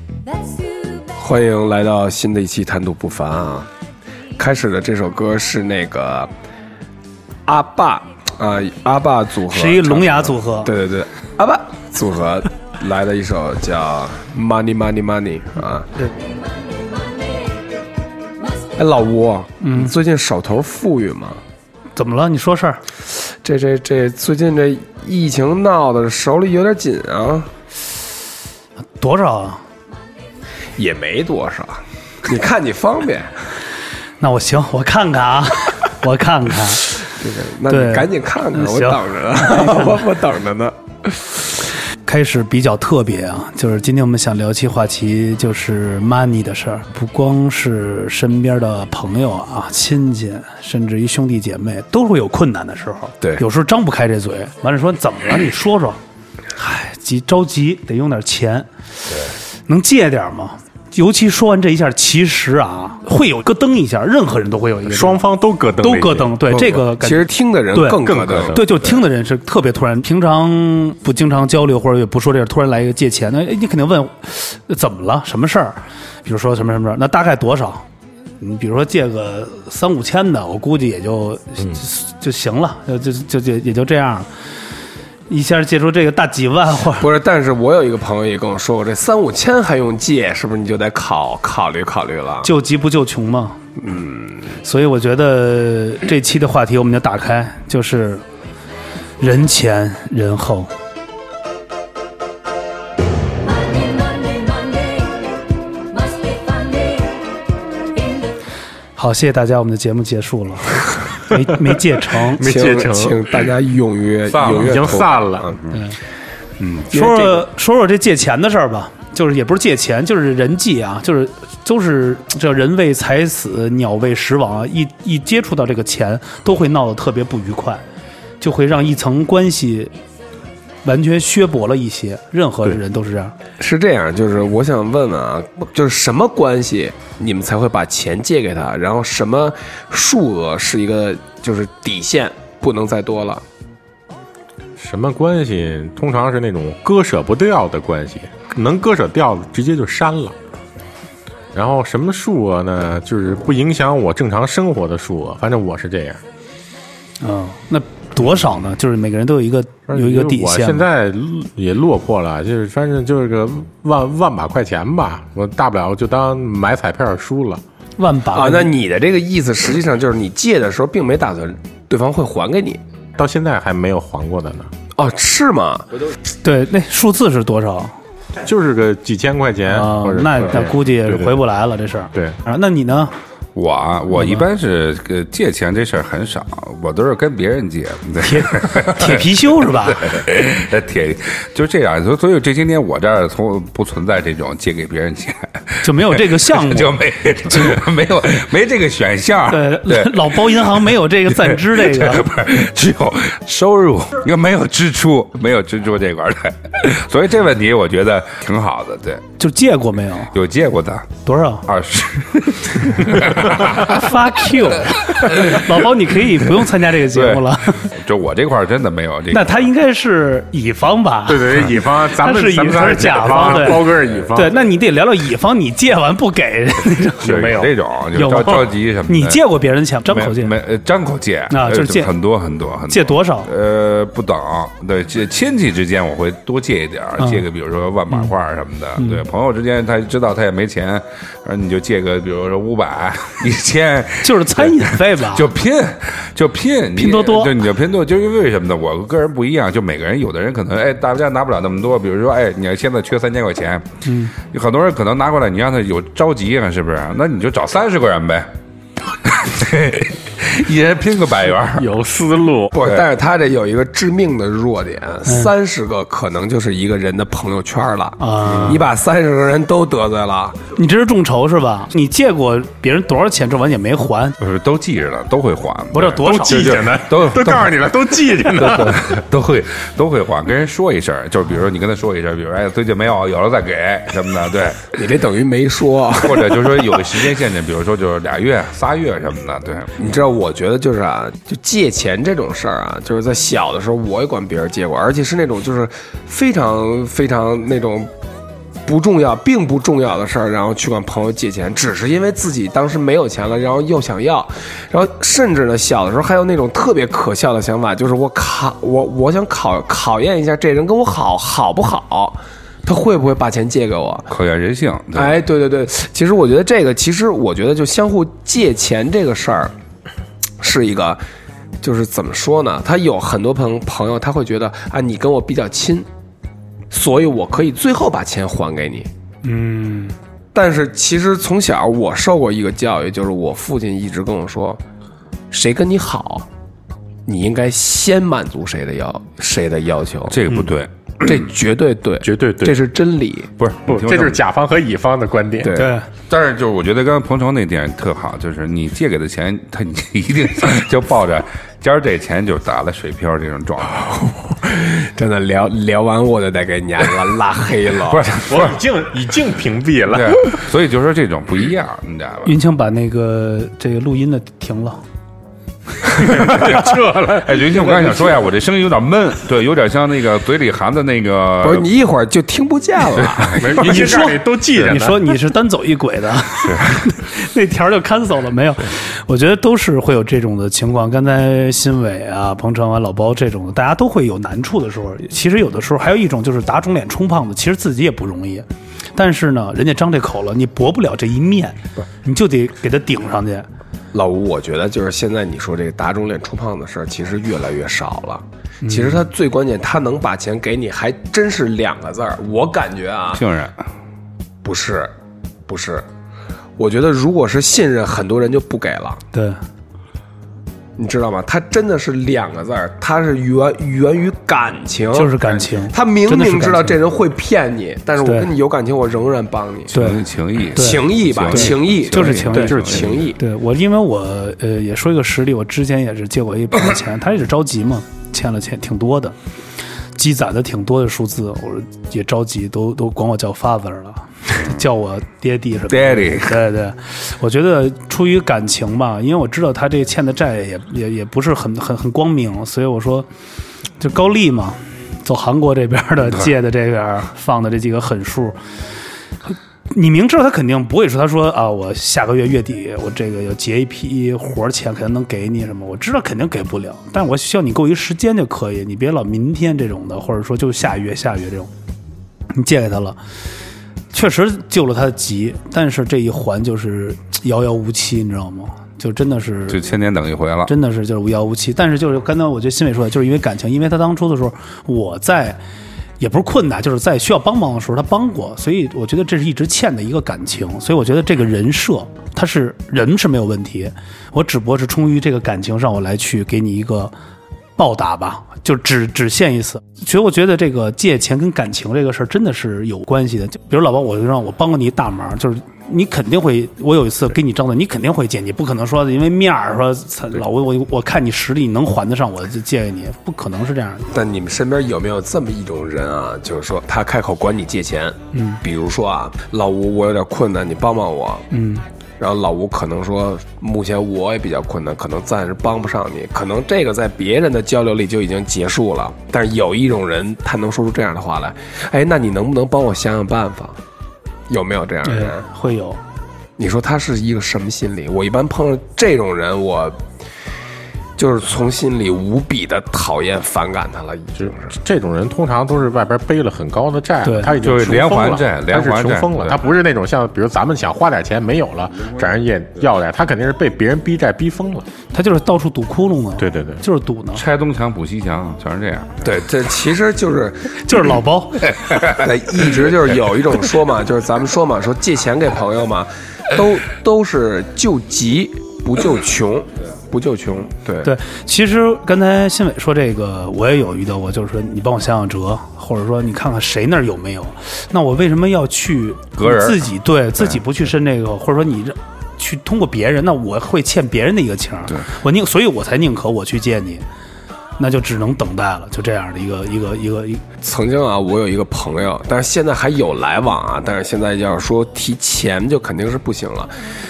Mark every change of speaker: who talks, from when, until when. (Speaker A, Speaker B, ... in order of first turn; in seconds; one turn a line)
Speaker A: 0.2-1.2
Speaker B: 1.2-3.7
Speaker B: 4.4-6.3
Speaker B: 7.5-15.9
Speaker C: 9.5-10.7
Speaker A: 16.8-17.4
Speaker B: 18.8-21.4
Speaker C: 19.6-19.9
Speaker C: 21.9-22.8
Speaker B: 23.3-27.5
Speaker C: 29.0-29.6
Speaker B: 30.8-33.3
Speaker C: 34.2-37.0
Speaker B: 37.0-41.3
Speaker C: 37.7-39.9
Speaker C: 42.0-56.0
Speaker C: 56.5-65.2
Speaker D: 64.8-66.3
Speaker C: 65.8-77.8
Speaker B: 66.5-68.6
Speaker D: 68.0-68.8
Speaker C: 78.4-84.3
Speaker C: 85.3-87.1
Speaker B: 87.0-92.5
Speaker C: 92.4-93.6
Speaker B: 93.8-94.5
Speaker C: 94.6-98.2
Speaker C: 99.2-100.7
Speaker A: 103.5-105.3
Speaker A: 106.0-107.2
Speaker C: 109.0-112.5
Speaker D: 112.2-113.4
Speaker B: 112.4-115.6
Speaker E: 114.3-114.9
Speaker D: 114.4-115.5
Speaker C: 115.7-116.0
Speaker B: 116.6-117.4
Speaker C: 116.9-127.8
Speaker C: 128.4-129.9
Speaker C: 130.8-133.3
Speaker B: 133.6-143.4
Speaker D: 144.8-150.3
Speaker D: 151.5-156.2
Speaker C: 157.2-160.8
Speaker D: 159.9-167.6
Speaker C: 168.0-168.7
Speaker B: 168.3-172.8
Speaker D: 173.2-174.7
Speaker B: 174.9-175.9
Speaker C: 176.4-177.9
Speaker D: 178.4-181.4
Speaker C: 179.7-183.1
Speaker E: 183.5-189.3
Speaker C: 184.1-184.4
Speaker C: 188.2-190.2
Speaker E: 189.9-209.2
Speaker C: 195.8-197.0
Speaker C: 197.5-197.8
Speaker C: 199.5-202.3
Speaker C: 209.4-210.3
Speaker E: 210.3-211.1
Speaker C: 211.2-211.7
Speaker E: 211.7-214.1
Speaker C: 213.6-217.9
Speaker E: 215.2-215.7
Speaker E: 217.1-219.7
Speaker C: 219.3-221.6
Speaker D: 221.3-224.6
Speaker C: 222.2-227.5
Speaker E: 227.2-229.4
Speaker D: 227.2-227.7
Speaker C: 228.1-230.5
Speaker E: 230.1-253.8
Speaker C: 231.5-232.1
Speaker C: 232.9-233.5
Speaker C: 237.2-237.4
Speaker C: 239.0-239.2
Speaker C: 244.2-245.5
Speaker C: 246.9-247.6
Speaker C: 254.0-254.3
Speaker E: 254.4-258.5
Speaker E: 259.2-261.9
Speaker D: 261.8-262.7
Speaker B: 262.7-270.6
Speaker C: 265.2-265.5
Speaker C: 268.2-268.8
Speaker C: 270.7-274.4
Speaker E: 274.4-284.9
Speaker C: 275.9-276.9
Speaker D: 276.2-279.2
Speaker B: 284.9-287.0
Speaker E: 286.2-290.0
Speaker B: 290.0-298.1
Speaker B: 298.8-314.3
Speaker E: 314.3-315.4
Speaker B: 315.1-319.7
Speaker B: 320.6-321.2
Speaker B: 321.8-326.1
Speaker B: 326.9-329.1
Speaker C: 329.4-330.1
Speaker B: 330.5-334.8
Speaker B: 335.5-336.4
Speaker B: 337.2-340.4
Speaker E: 340.3-341.3
Speaker B: 341.2-343.5
Speaker D: 342.2-342.8
Speaker E: 343.6-344.4
Speaker D: 343.9-345.8
Speaker B: 345.6-345.9
Speaker C: 345.7-346.1
Speaker E: 346.3-354.1
Speaker B: 354.1-358.3
Speaker E: 358.1-358.8
Speaker D: 358.4-360.6
Speaker E: 360.1-362.5
Speaker C: 362.4-365.0
Speaker D: 366.2-368.3
Speaker E: 366.4-371.9
Speaker B: 371.6-373.6
Speaker E: 373.2-373.5
Speaker D: 373.5-375.4
Speaker C: 373.7-393.7
Speaker B: 394.1-403.4
Speaker C: 398.8-399.2
Speaker E: 403.3-403.9
Speaker B: 404.6-405.1
Speaker B: 405.7-406.1
Speaker B: 406.8-409.2
Speaker C: 409.3-409.6
Speaker B: 410.9-419.9
Speaker C: 415.1-417.0
Speaker C: 418.2-418.5
Speaker C: 419.9-422.8
Speaker E: 419.9-423.3
Speaker B: 420.7-423.4
Speaker D: 422.7-423.2
Speaker C: 423.4-429.3
Speaker C: 430.1-443.3
Speaker E: 435.9-436.6
Speaker C: 444.0-448.6
Speaker C: 449.4-461.7
Speaker C: 462.5-463.2
Speaker C: 464.1-469.8
Speaker E: 469.7-470.7
Speaker C: 470.7-475.6
Speaker C: 476.2-487.1
Speaker C: 487.8-504.1
Speaker B: 504.1-511.4
Speaker C: 508.3-508.6
Speaker C: 511.5-511.8
Speaker B: 512.2-523.8
Speaker B: 524.5-525.4
Speaker C: 525.0-526.0
Speaker B: 526.6-530.0
Speaker B: 531.2-534.7
Speaker D: 534.4-544.9
Speaker C: 537.2-537.5
Speaker E: 537.6-539.6
Speaker C: 545.1-547.4
Speaker D: 546.4-546.8
Speaker E: 547.4-549.4
Speaker B: 549.2-550.8
Speaker C: 550.8-551.7
Speaker B: 552.0-561.1
Speaker C: 561.0-577.0
Speaker E: 569.4-569.8
Speaker C: 577.8-580.4
Speaker B: 580.6-586.7